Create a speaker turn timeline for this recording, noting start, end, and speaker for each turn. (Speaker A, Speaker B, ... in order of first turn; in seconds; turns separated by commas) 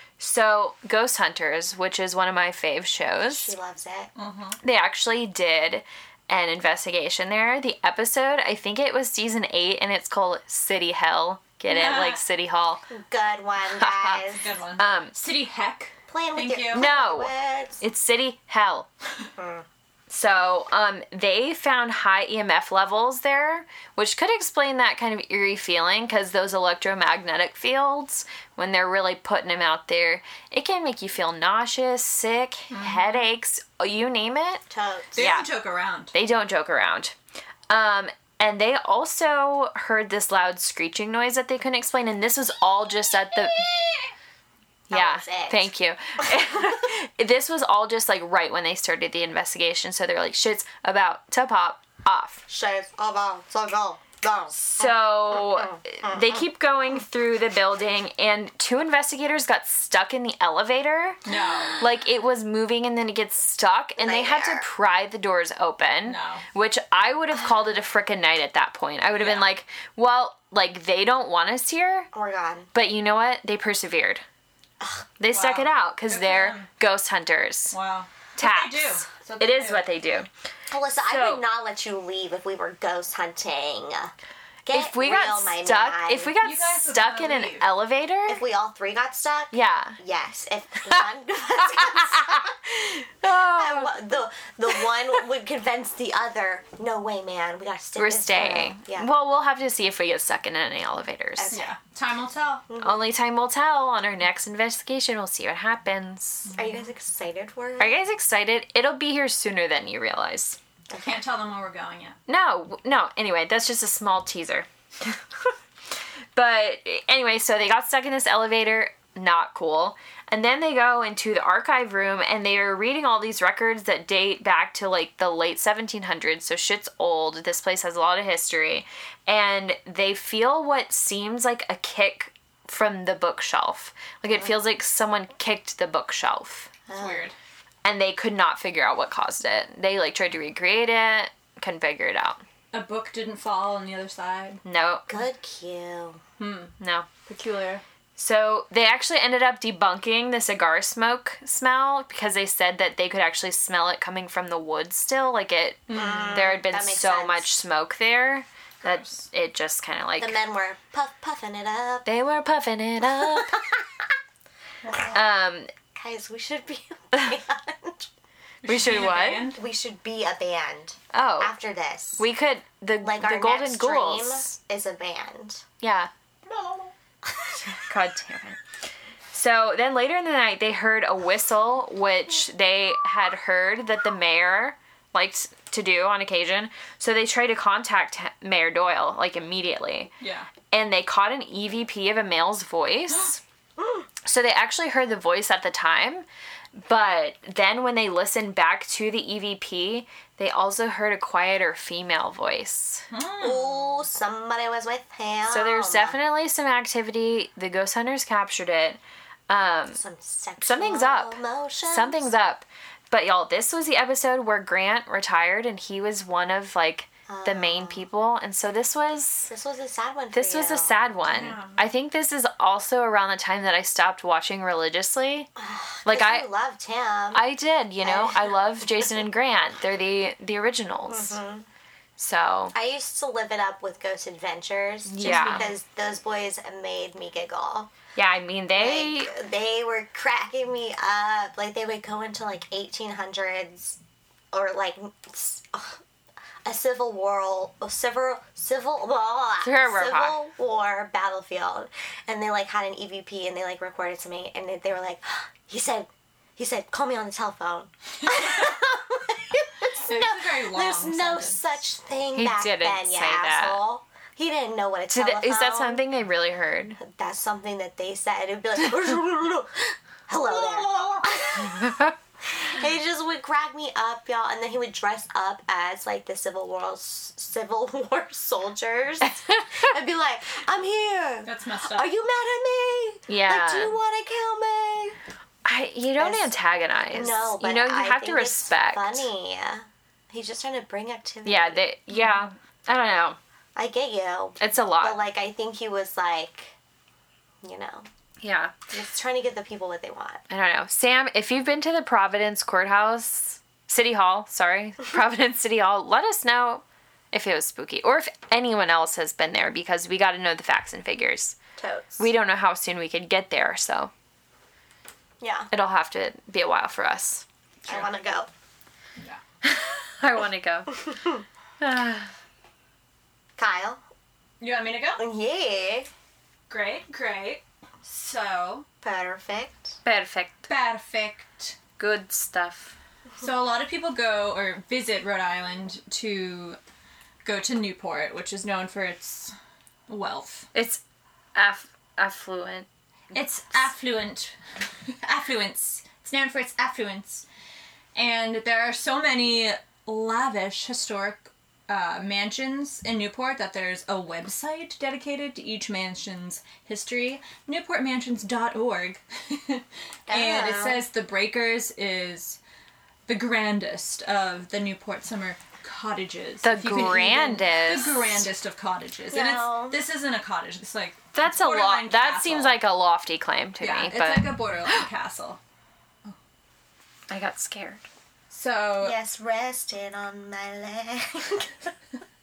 Speaker A: 0.2-3.5, Speaker B: 3.2-4.1, Speaker C: 4.2-4.6, Speaker A: 4.6-12.8, Speaker C: 11.7-12.2, Speaker B: 12.9-14.4, Speaker A: 13.8-15.2, Speaker C: 14.3-16.9, Speaker B: 16.1-17.8, Speaker A: 16.7-18.9, Speaker B: 19.4-19.6, Speaker A: 20.1-34.6, Speaker C: 32.7-33.2, Speaker B: 34.7-35.1, Speaker C: 35.1-36.1, Speaker A: 35.2-35.5, Speaker A: 36.1-37.1, Speaker A: 37.7-43.7, Speaker B: 44.9-45.7, Speaker A: 44.9-52.4, Speaker B: 52.5-56.4, Speaker A: 54.5-61.2, Speaker C: 61.2-61.8, Speaker A: 61.8-72.1, Speaker B: 64.0-64.7, Speaker C: 66.0-66.4, Speaker B: 72.1-72.7, Speaker A: 72.7-74.2, Speaker B: 74.8-75.1, Speaker A: 75.2-77.7, Speaker C: 75.3-76.7, Speaker C: 77.7-79.9, Speaker A: 78.4-80.3, Speaker B: 80.7-84.1, Speaker A: 81.1-81.4, Speaker B: 84.6-86.3, Speaker A: 84.7-88.4, Speaker C: 86.4-87.7, Speaker B: 88.3-92.5, Speaker A: 89.5-90.0, Speaker A: 91.6-94.1, Speaker B: 93.3-99.1, Speaker A: 98.0-101.6, Speaker B: 101.4-101.7, Speaker C: 101.5-102.6, Speaker B: 102.7-103.0, Speaker A: 102.8-106.5, Speaker C: 106.4-106.9, Speaker B: 106.5-108.0, Speaker A: 107.8-110.6, Speaker B: 110.9-111.2, Speaker C: 111.0-112.2, Speaker A: 112.3-115.2, Speaker A: 116.3-136.7, Speaker B: 134.3-134.6, Speaker B: 136.9-137.3, Speaker C: 136.9-137.3, Speaker A: 137.8-142.4, Speaker C: 142.7-144.6, Speaker A: 144.6-145.2, Speaker B: 145.1-146.2, Speaker C: 146.4-146.7, Speaker A: 146.8-147.1, Speaker C: 147.2-147.8, Speaker A: 148.2-160.4, Speaker C: 155.9-156.5, Speaker B: 155.9-157.6, Speaker C: 158.8-159.2, Speaker B: 160.2-162.1, Speaker A: 162.0-163.6, Speaker B: 163.1-163.8, Speaker B: 164.8-165.2, Speaker A: 165.1-165.7, Speaker B: 165.9-168.1, Speaker C: 168.6-169.6, Speaker A: 168.7-169.5, Speaker B: 169.5-172.2, Speaker A: 171.1-171.5, Speaker A: 172.2-174.5, Speaker B: 173.0-175.6, Speaker A: 175.8-176.1, Speaker A: 177.7-178.6, Speaker A: 179.3-190.1, Speaker C: 190.2-190.5, Speaker A: 190.7-193.4, Speaker A: 194.2-203.1, Speaker C: 203.1-203.9, Speaker B: 203.4-206.2, Speaker A: 205.4-210.0, Speaker B: 209.9-212.3, Speaker A: 210.6-219.5, Speaker B: 217.3-218.1, Speaker B: 219.5-221.2, Speaker A: 220.3-225.5, Speaker C: 221.3-221.8, Speaker B: 225.6-227.4, Speaker A: 226.0-226.5, Speaker A: 227.3-231.4, Speaker B: 228.0-229.1, Speaker B: 231.1-231.7, Speaker A: 232.2-232.7, Speaker B: 232.7-237.9, Speaker A: 235.1-235.7, Speaker C: 235.2-235.6, Speaker A: 238.2-239.3, Speaker B: 238.8-244.0, Speaker B: 244.5-246.0, Speaker B: 246.6-266.0, Speaker A: 249.6-250.4, Speaker C: 259.9-261.8, Speaker A: 262.3-263.8, Speaker A: 265.1-267.0, Speaker B: 267.0-271.9, Speaker A: 271.6-272.1, Speaker B: 272.6-285.2, Speaker C: 281.4-282.1, Speaker A: 283.3-284.0, Speaker A: 285.6-289.3, Speaker B: 286.2-286.5, Speaker B: 287.1-291.8, Speaker A: 291.4-293.4, Speaker B: 293.8-296.7, Speaker A: 294.6-295.2, Speaker B: 297.6-298.1, Speaker A: 298.4-298.7, Speaker B: 298.9-300.4, Speaker A: 300.5-311.6, Speaker B: 311.8-312.2, Speaker A: 312.2-314.1, Speaker B: 315.4-315.7, Speaker A: 315.7-317.4, Speaker C: 317.8-318.1, Speaker B: 317.9-318.5, Speaker A: 319.6-320.9, Speaker B: 321.1-321.4, Speaker A: 321.8-322.3, Speaker B: 323.6-324.0, Speaker C: 324.6-325.2, Speaker B: 325.2-326.1, Speaker C: 326.7-328.9, Speaker B: 329.0-330.0, Speaker A: 330.0-330.7, Speaker C: 330.7-331.8, Speaker A: 332.0-332.9, Speaker C: 333.4-336.8, Speaker C: 337.4-339.5, Speaker C: 340.1-340.7, Speaker A: 340.7-341.0, Speaker A: 341.5-342.9, Speaker C: 343.3-347.4, Speaker C: 348.1-362.6, Speaker B: 360.3-361.0, Speaker C: 363.3-372.8, Speaker A: 366.6-368.4, Speaker B: 369.3-370.0, Speaker A: 371.3-375.0, Speaker C: 373.8-375.6, Speaker A: 377.3-378.1, Speaker C: 378.5-379.2, Speaker B: 379.0-381.9